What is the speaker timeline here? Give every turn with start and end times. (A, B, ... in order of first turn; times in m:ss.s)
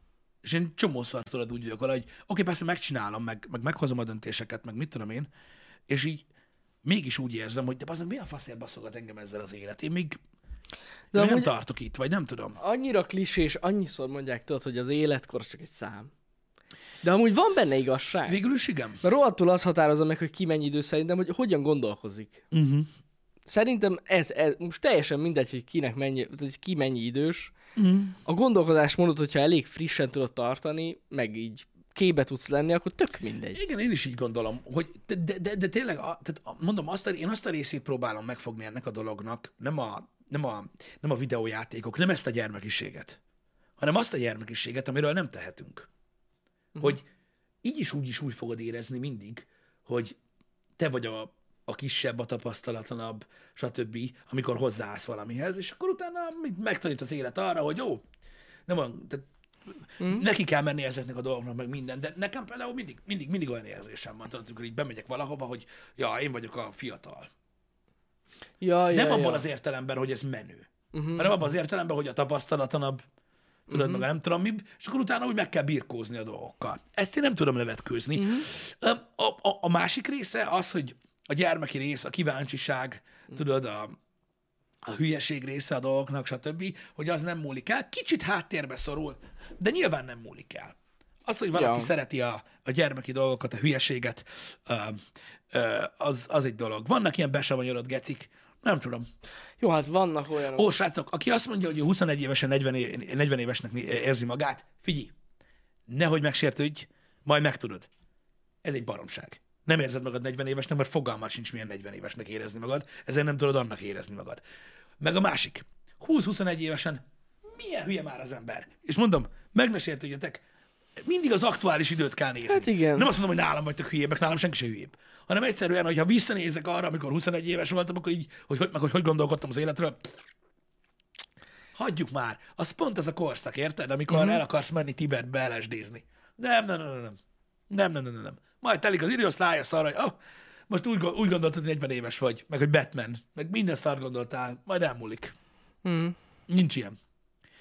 0:00.4-0:05.3 A
0:05.9-0:06.2 A
0:06.8-0:10.2 A
0:11.1-0:11.5 B
0:11.1-0:12.6 A
0:12.6-0:16.1 B
0:17.0-0:18.4 B
0:18.3-0:19.0 A
0:19.0-0:22.4 B
0:22.5-0:22.9 A
0:23.5-0:27.5 B
0:27.8-0:28.2 A
0:28.2-0:33.6 B
0:33.5-0:43.2 A
0:43.8-0:45.9 A
0:47.6-0:50.2 A
0:50.8-0:58.0 A
0:58.7-0:59.3 A
0:59.8-1:07.3 A
1:00.0-1:00.3 B
1:08.6-1:09.4 B
1:08.9-1:13.0 A
1:10.9-1:11.3 B
1:13.7-1:24.0 A
1:13.7-1:14.0 B
1:18.2-1:18.5 B
1:24.9-1:39.1 A
1:31.5-1:31.9 B
1:39.6-1:40.8 B
1:40.5-1:45.1 A
1:45.9-1:47.9 A
1:48.6-1:54.4 A
1:55.0-2:00.4 A
2:01.0-2:10.1 A
2:02.5-2:03.1 B
2:11.7-2:17.2 A
2:14.1-2:14.4 B
2:17.7-2:20.1 A
2:20.7-2:25.4 A
2:25.8-2:26.2 B
2:26.5-2:27.0 A